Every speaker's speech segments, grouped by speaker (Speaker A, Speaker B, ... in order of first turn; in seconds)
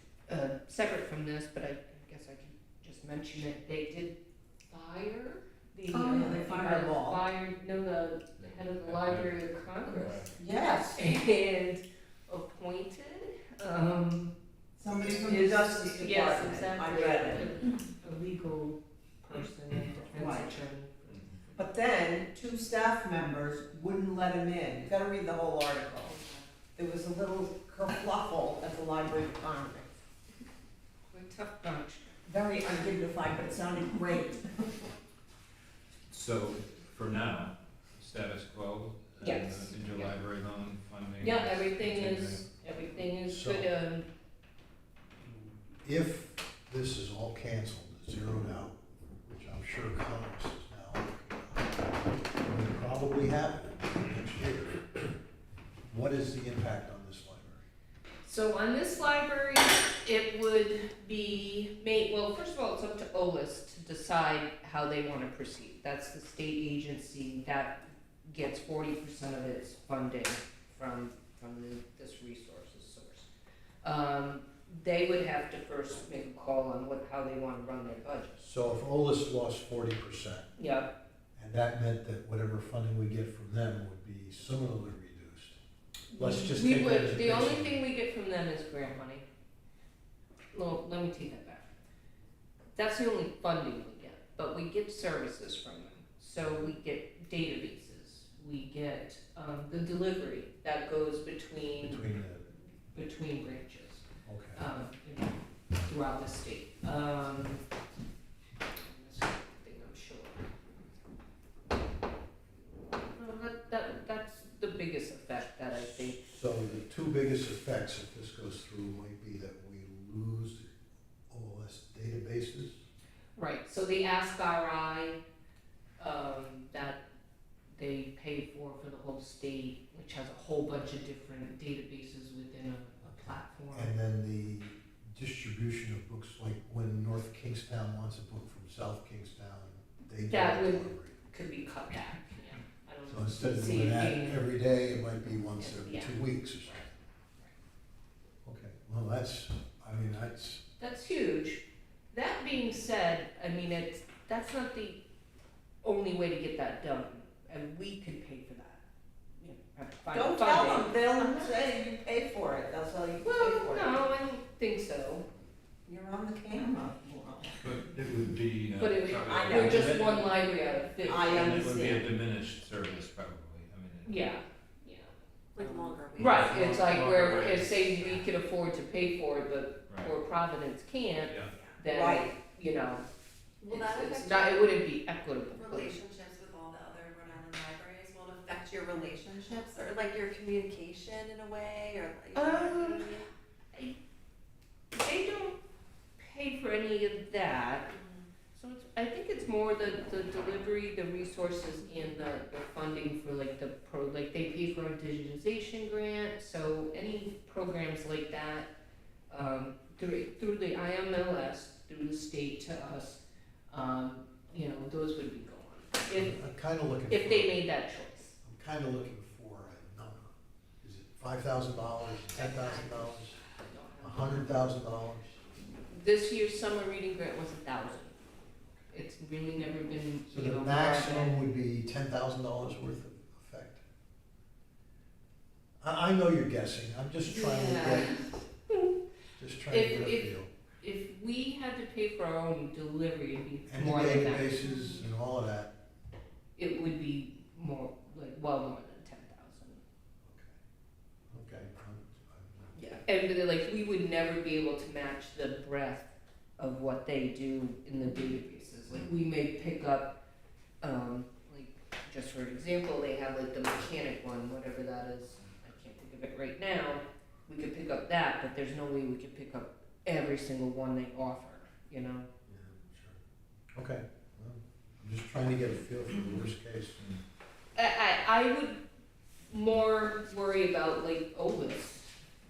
Speaker A: 0.3-4.2, 4.7-10.3, 10.9-14.3, 15.2-21.7, 31.1-32.1, 39.2-40.1, 41.2-44.1, 58.2-73.3, 73.8-78.4, 80.6-80.9, 86.1-89.2, 90.5-91.7, 92.8-102.0, 102.9-107.6, 108.7-110.4, 113.1-116.2, 123.4-125.2, 126.0-127.0, 127.8-133.9, 140.2-144.5, 145.6-146.2, 150.8-155.0, 155.8-158.8, 159.4-161.6, 163.2-165.3, 168.8-171.6, 174.1-175.1, 176.2-183.0, 183.7-185.9, 192.3-193.9, 194.9-195.6, 196.2-197.9, 198.5-208.7, 209.3-216.4, 217.1-218.4, 222.3-224.6, 225.9-228.2, 228.9-231.4, 237.2-239.0, 239.7-244.6, 246.6-249.8, 252.8-260.2, 260.8-272.3, 277.8-278.8, 279.5-282.1
Speaker B: 5.9-7.2, 10.3-11.0, 14.8-17.5, 20.1-20.6, 21.6-26.2, 26.8-29.9, 32.2-34.9, 160.1-164.0, 165.8-167.6, 169.3-170.0, 171.0-172.1, 175.6-176.1, 181.9-182.3
Speaker C: 8.8-10.4, 36.1-42.5, 167.6-170.3, 171.1-174.1, 176.2-178.3
Speaker D: 26.2-26.4, 175.6-177.6, 181.5-181.8, 183.6-184.7, 185.5-193.3, 197.9-198.3
Speaker E: 43.3-43.7, 45.2-54.9, 55.9-57.6, 78.4-80.5, 81.4-85.6, 86.2-87.8, 101.8-102.5, 104.3-104.6, 116.2-120.7, 121.3-122.8, 133.7-141.2, 143.1-147.0, 148.4-150.6, 216.1-217.6, 218.4-223.4, 224.0-225.3, 230.3-233.8, 235.8-238.2, 239.4-240.5, 243.7-245.7, 250.2-250.5, 251.3-252.7, 272.5-273.2, 273.7-277.1